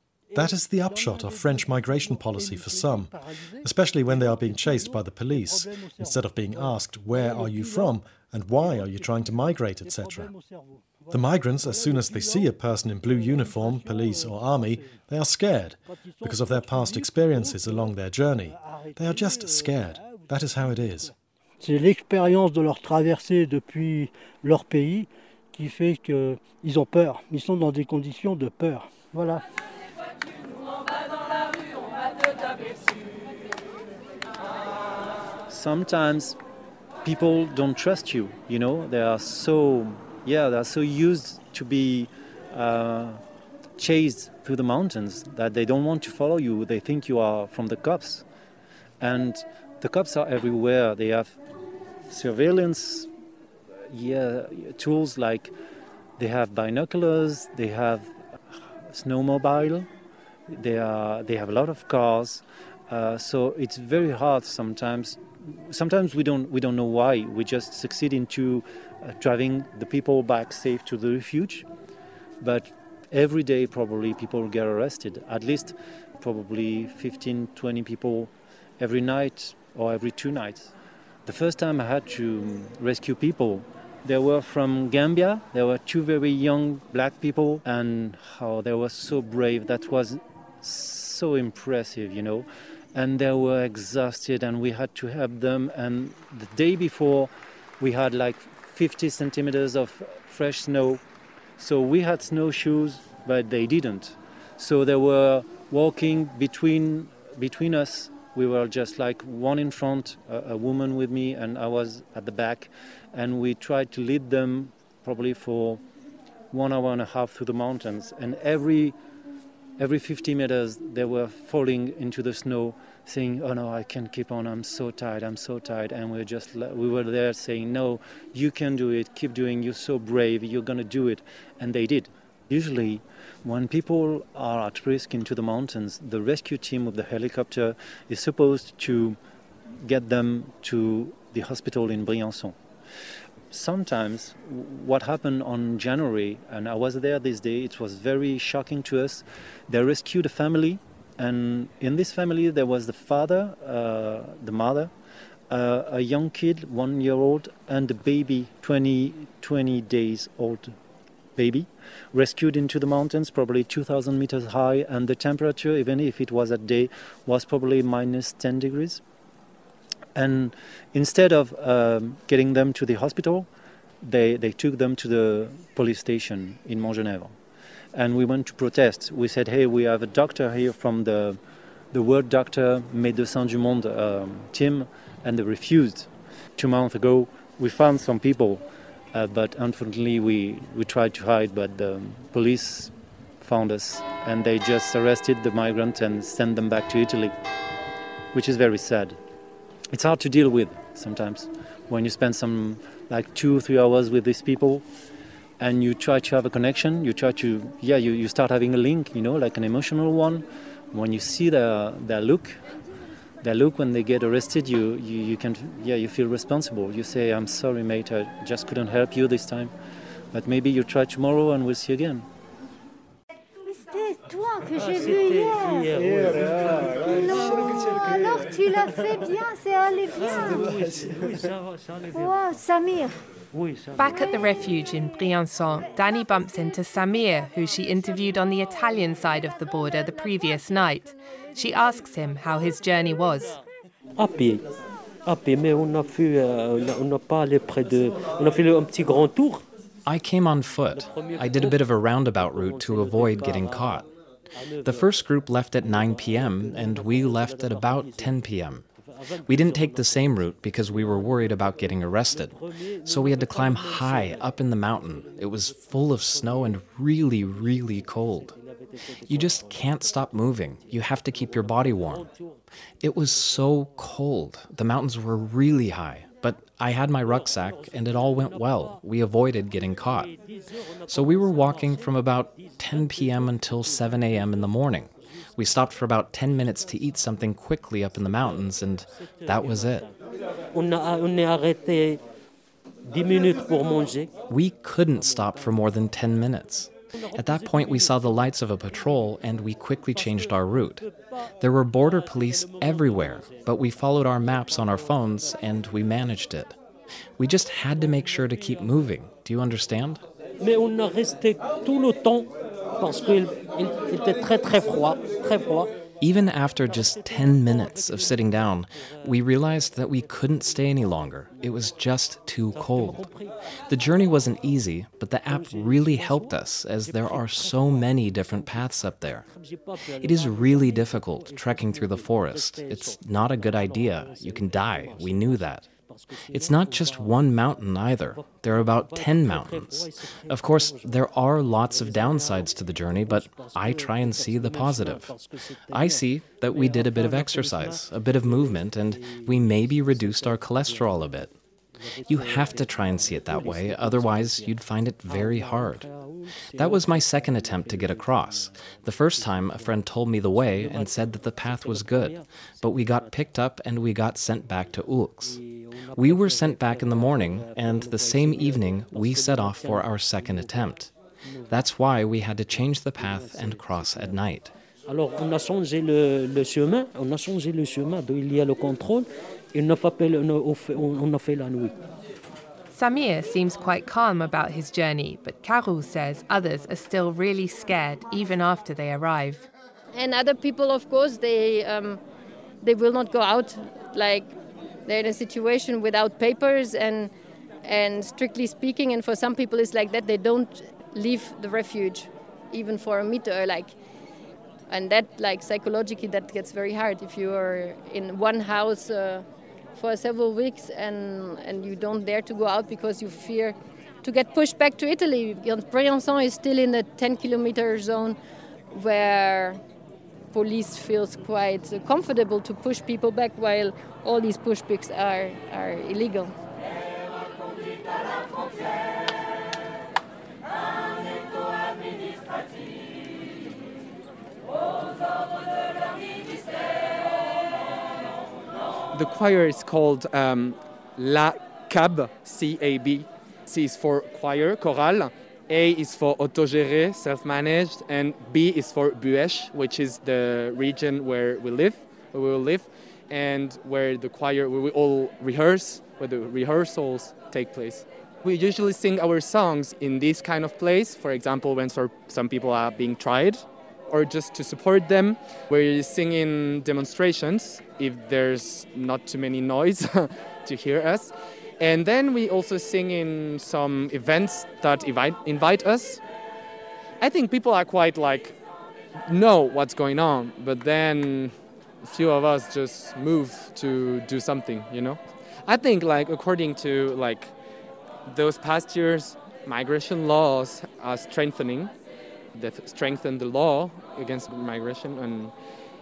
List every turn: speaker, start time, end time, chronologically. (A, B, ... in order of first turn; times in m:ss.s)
0:00.3-0:10.3 A
0:00.4-0:03.6 B
0:04.3-0:04.8 B
0:05.8-0:06.1 B
0:07.1-0:07.9 B
0:09.8-0:12.5 B
0:11.1-0:21.1 A
0:13.0-0:14.9 B
0:15.9-0:21.1 B
0:21.6-0:29.4 B
0:35.5-0:36.4 C
0:37.0-0:43.2 C
0:43.8-0:48.2 C
0:49.0-0:51.4 C
0:52.1-0:53.1 C
0:53.9-0:55.5 C
0:56.2-0:58.2 C
0:58.9-0:59.9 C
1:00.5-1:11.6 C
1:12.4-1:20.7 C
1:21.2-1:41.0 C
1:41.6-1:55.8 C
1:56.5-1:59.0 C
1:59.8-2:19.2 C
2:19.7-2:22.6 C
2:23.5-2:34.9 C
2:35.5-2:40.8 C
2:41.4-2:49.0 C
2:50.1-2:53.5 C
2:54.0-2:57.4 C
2:57.9-3:01.4 C
3:01.9-3:17.3 C
3:18.3-3:19.2 C
3:19.9-3:24.8 C
3:25.6-3:32.6 C
3:33.4-3:39.7 C
3:40.3-3:42.2 C
3:43.7-3:45.9 D
3:44.7-3:48.1 E
3:46.1-3:46.8 B
3:47.0-3:50.7 D
3:50.1-3:52.6 E
3:52.1-3:53.1 D
3:53.5-3:54.1 E
3:54.0-4:03.6 F
4:04.2-4:04.6 E
4:05.2-4:09.6 E
4:10.0-4:14.1 G
4:10.9-4:11.9 E
4:12.5-4:14.0 E
4:14.8-4:18.9 G
4:16.8-4:17.2 E
4:19.4-4:28.6 G
4:23.4-4:23.6 E
4:29.2-4:32.3 G
4:33.0-4:40.4 G
4:41.1-4:50.1 G
4:49.5-4:50.1 E
4:50.7-4:52.2 E
4:53.0-4:54.3 E
4:54.5-5:06.8 G
5:07.4-5:10.2 G
5:10.6-5:15.9 E
5:16.2-5:23.3 G
5:22.8-5:23.5 E
5:23.9-5:29.5 G
5:25.8-5:26.3 E
5:30.2-5:35.9 G
5:34.5-5:35.5 E
5:36.4-5:51.5 G
5:43.3-5:43.7 E
5:44.9-5:45.2 E
5:52.2-5:56.2 G
5:56.2-5:56.4 E
5:56.7-6:11.1 G
6:07.9-6:10.3 E
6:11.7-6:14.7 G
6:13.2-6:14.3 E
6:15.0-6:22.0 E
6:22.9-6:29.7 F
6:30.1-6:32.2 H
6:32.8-6:34.5 H
6:35.0-6:37.3 H
6:37.8-6:43.9 H
6:44.9-6:58.4 H
6:58.9-6:59.8 H
7:00.5-7:06.5 H
7:19.1-7:56.2 I
7:57.2-7:58.6 I
7:59.3-8:07.5 I
8:08.2-8:11.9 I
8:12.5-8:15.5 I